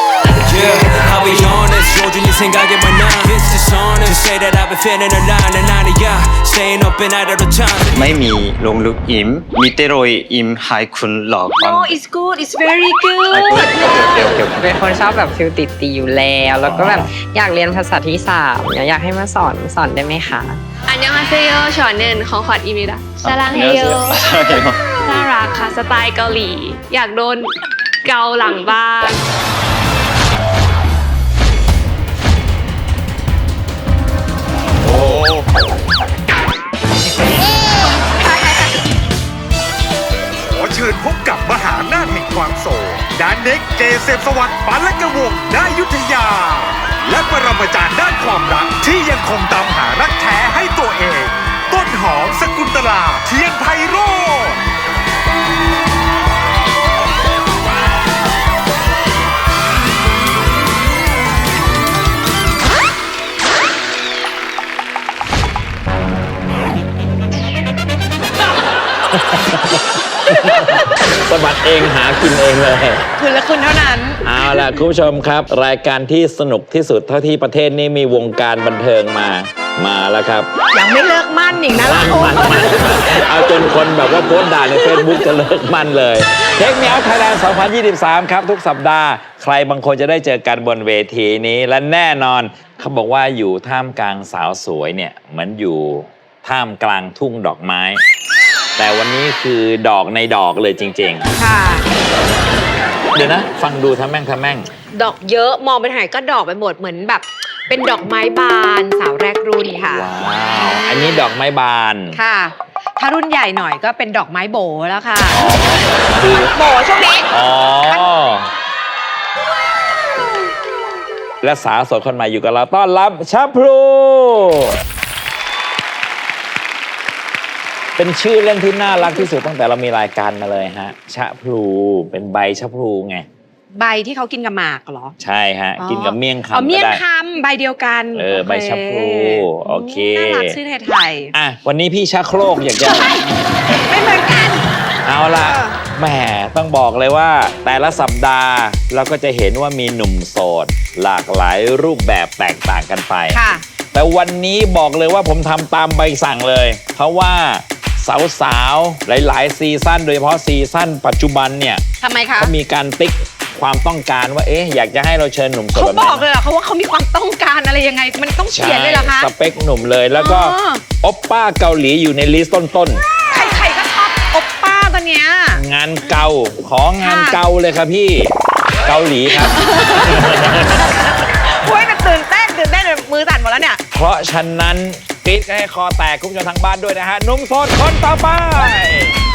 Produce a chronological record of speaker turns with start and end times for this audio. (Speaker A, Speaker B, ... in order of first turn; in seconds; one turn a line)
Speaker A: 0.4-8.0
Speaker B: 7.9-12.0
Speaker B: 13.3-14.8
Speaker C: 14.5-20.6
Speaker D: 16.6-17.0
Speaker E: 20.9-24.2
Speaker B: 23.2-24.8
Speaker E: 25.0-27.5
Speaker E: 28.1-29.2
Speaker F: 34.9-35.5
Speaker F: 40.5-54.6
Speaker D: 69.1-73.1
Speaker G: 73.2-74.2
Speaker D: 74.2-80.5
Speaker G: 80.7-83.2
Speaker D: 81.8-98.0
Speaker G: 84.7-85.0
Speaker D: 98.8-101.3
Speaker G: 101.4-101.9
Speaker D: 103.1-104.7
Speaker G: 104.9-110.2
Speaker D: 109.8-112.2
Speaker G: 112.1-115.6
Speaker D: 115.3-116.5
Speaker G: 116.2-117.3
Speaker D: 117.3-118.5
Speaker G: 117.8-118.1
Speaker D: 121.4-124.8
Speaker D: 128.0-133.3
Speaker G: 133.7-135.2
Speaker D: 135.2-137.0
Speaker G: 135.8-141.3
Speaker D: 138.1-140.6
Speaker D: 141.3-143.1
Speaker G: 142.8-144.7
Speaker D: 145.1-153.4
Speaker G: 145.3-145.8
Speaker G: 153.3-153.6
Speaker D: 153.9-161.8
Speaker G: 162.0-162.6
Speaker D: 162.4-166.2
Speaker G: 165.7-169.3
Speaker D: 168.5-173.0
Speaker G: 170.1-170.9
Speaker G: 173.2-175.6
Speaker D: 175.5-180.9
Speaker G: 177.0-177.4
Speaker G: 179.3-180.7
Speaker G: 181.5-183.8
Speaker D: 183.9-189.1